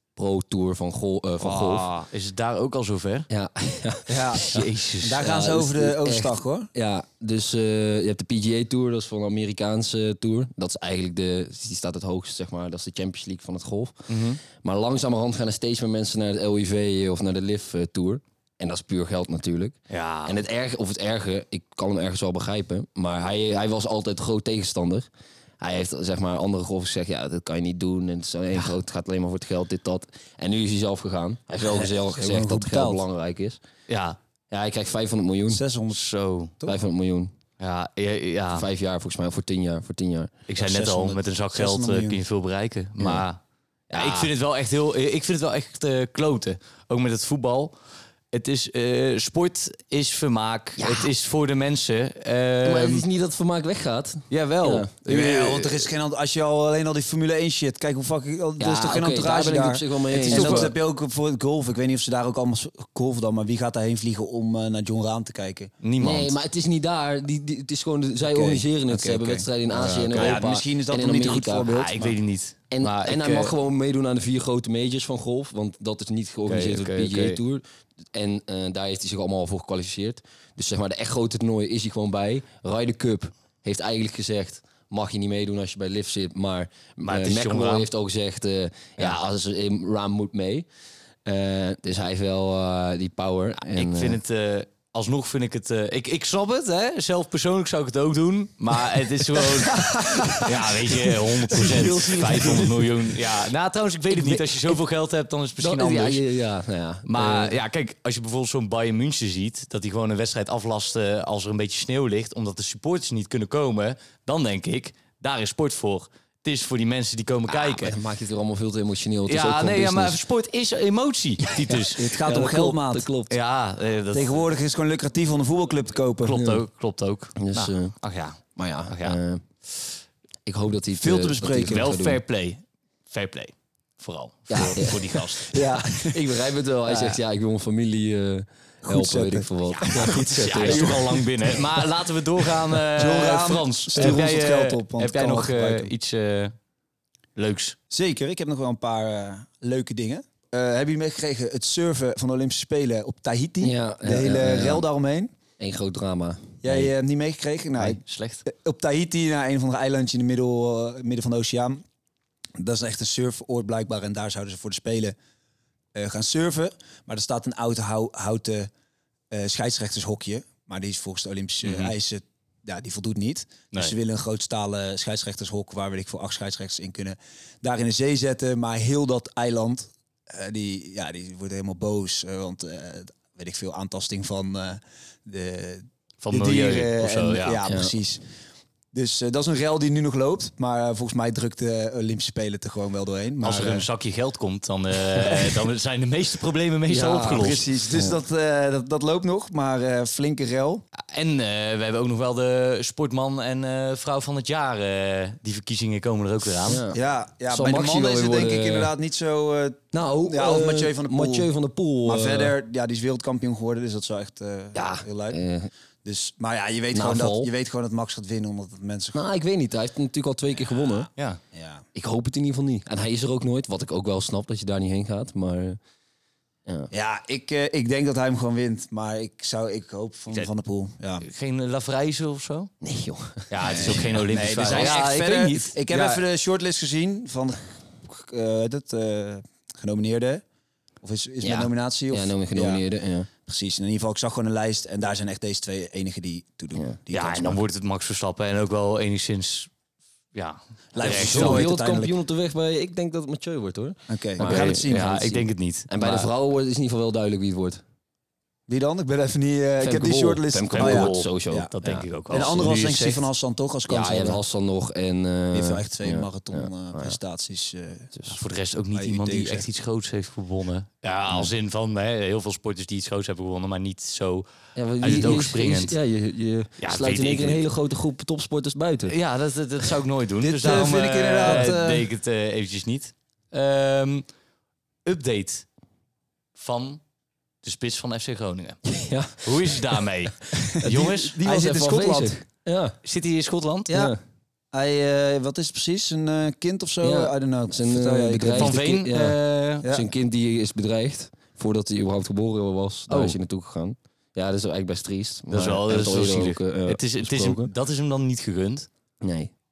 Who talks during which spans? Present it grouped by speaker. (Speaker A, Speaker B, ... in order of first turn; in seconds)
Speaker A: 0.1-1.9, 3.3-33.6, 34.5-35.6, 36.6-37.3, 38.5-40.3, 43.0-43.2, 43.9-44.3, 50.8-51.1, 52.6-54.9, 58.6-60.7, 66.0-71.7, 72.7-90.7, 91.2-94.2, 101.5-103.0, 104.1-104.8, 105.6-107.6, 117.5-120.2, 121.5-123.3, 126.4-126.6, 127.4-128.0, 128.6-129.4, 130.5-132.2, 134.5-141.3, 144.0-144.3, 153.6-154.8, 155.6-156.9, 196.9-198.2, 206.6-208.9, 209.9-212.5, 214.7-215.7, 216.9-217.5, 219.1-221.1, 221.9-225.8, 232.8-234.9, 241.4-243.3, 251.0-255.2, 255.9-257.8, 259.8-262.7, 263.9-267.2, 274.8-279.1, 281.4-281.7, 288.9-290.0, 290.8-293.0, 293.9-294.2, 297.0-307.7, 309.2-309.5
Speaker B: 1.4-3.3, 4.4-5.2, 14.1-14.4, 19.9-20.4, 33.9-34.2, 35.9-36.5, 37.6-38.6, 40.5-43.4, 43.9-47.7, 48.3-53.0, 54.3-55.9, 60.1-60.7, 65.8-66.3, 69.7-70.4, 71.7-73.5, 76.5-77.4, 87.0-87.9, 93.7-106.2, 107.1-118.0, 119.2-122.0, 123.3-124.4, 126.2-129.2, 131.7-135.6, 139.8-146.5, 147.4-147.8, 157.8-158.4, 171.6-171.9, 186.2-187.6, 193.4-197.6, 201.0-206.8, 231.2-232.7, 233.5-236.2, 247.1-249.7, 250.3-251.6, 254.4-256.3, 260.7-263.2, 268.3-274.5, 275.0-275.9, 276.8-277.6, 279.1-284.2, 285.0-285.6, 286.6-287.0, 287.6-288.9, 289.4-291.4, 293.0-293.9, 298.5-299.8, 303.1-303.4, 305.5-308.9
Speaker C: 4.1-6.7, 31.6-33.0, 35.5-36.0, 40.6-42.2, 55.1-65.7, 68.3-72.2, 99.7-100.5, 101.6-102.2, 121.9-123.1, 124.1-126.5, 131.0-131.9, 135.5-136.2, 138.8-141.3, 142.9-145.9, 147.9-155.3, 156.6-161.8, 162.6-165.2, 165.9-168.7, 169.3-188.2, 188.9-193.8, 197.2-200.8, 206.9-211.5, 212.0-215.4, 216.0-219.2, 220.7-221.8, 226.9-231.2, 233.6-240.4, 241.0-242.8, 243.5-247.6, 250.9-252.1, 254.1-255.4, 258.7-261.7, 262.3-264.4, 265.5-268.1, 268.9-269.6, 280.4-282.1, 290.6-292.4, 293.9-294.1, 294.7-298.8